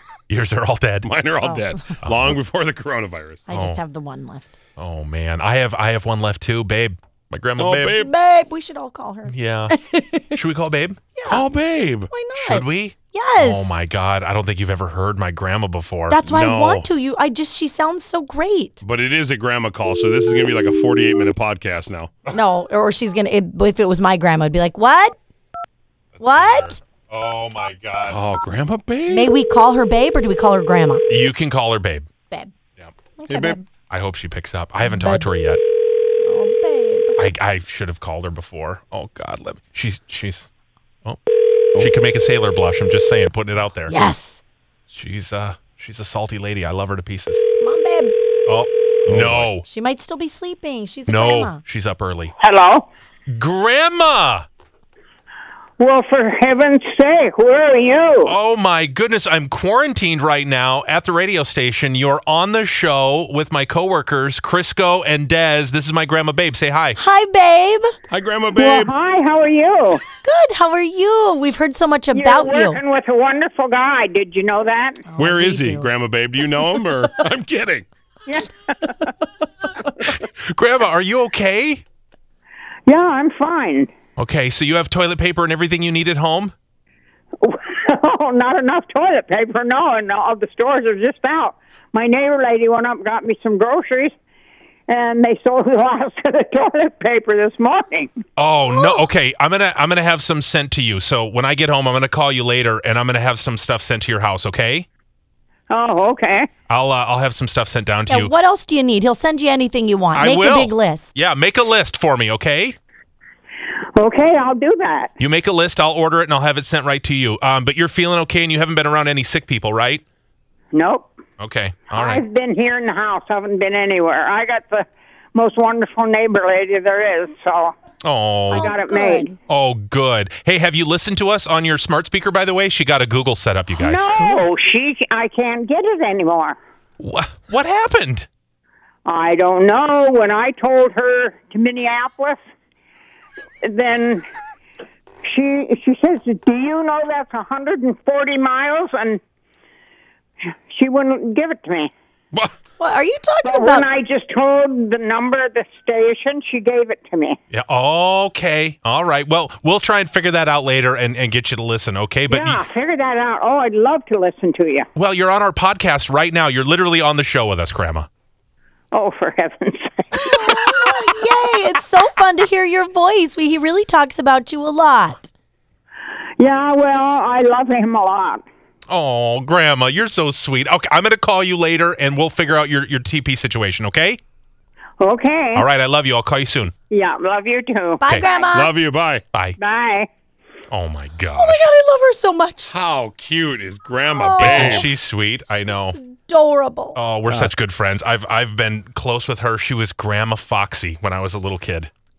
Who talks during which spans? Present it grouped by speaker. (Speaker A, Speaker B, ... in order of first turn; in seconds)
Speaker A: 0.3-1.1, 2.0-2.4, 3.5-3.8, 4.8-7.9, 9.3-9.8, 10.3-11.0, 12.3-16.2, 26.1-28.2, 31.1-32.1, 33.9-35.6, 37.1-40.5, 41.8-43.9, 44.9-47.4, 48.5-49.6, 51.1-52.3, 53.3-54.5, 58.2-67.0, 80.0-81.8, 84.2-86.5, 98.4-104.9, 106.7-108.3, 110.1-112.8, 115.2-120.0, 121.4-122.2, 128.0-128.7, 129.5-134.2, 137.0-138.3, 157.5-162.6, 164.9-168.1, 178.9-184.2, 185.5-186.7, 190.7-191.6, 194.4-196.0, 196.9-201.9
Speaker B: 1.0-3.5, 7.6-8.1, 11.2-12.1, 16.2-16.9, 18.8-22.1, 28.0-29.3, 33.3-33.6, 49.1-49.5, 68.1-68.9, 75.2-77.9, 188.5-189.2, 192.6-194.9, 197.2-197.5
Speaker C: 1.4-1.8, 3.5-4.5, 7.9-10.2, 11.2-11.4, 12.1-13.8, 16.1-18.8, 22.3-25.1, 26.2-26.8, 29.1-31.0, 33.2-33.6, 34.9-35.2, 36.2-37.1, 43.9-44.4, 47.6-48.1, 49.6-51.6, 67.0-67.8, 70.2-72.8, 75.1-75.9, 98.7-99.0, 108.1-111.1, 128.5-129.3, 152.8-153.8, 170.1-175.3, 188.0-188.7, 191.3-192.7, 194.1-194.9, 195.7-197.0
Speaker D: 52.4-52.9, 55.8-58.3, 68.5-70.0, 72.1-75.1, 78.2-79.1, 82.9-83.9, 87.4-94.1, 94.9-98.1, 105.7-106.5, 114.0-115.1, 120.7-121.1, 121.9-127.7, 128.5-129.3, 133.7-136.6, 139.0-142.4, 143.6-144.2, 145.2-149.2, 150.7-151.9, 153.4-157.4, 162.3-164.9, 168.9-171.3, 176.4-178.4, 185.0-185.7, 186.9-188.1, 189.6-190.1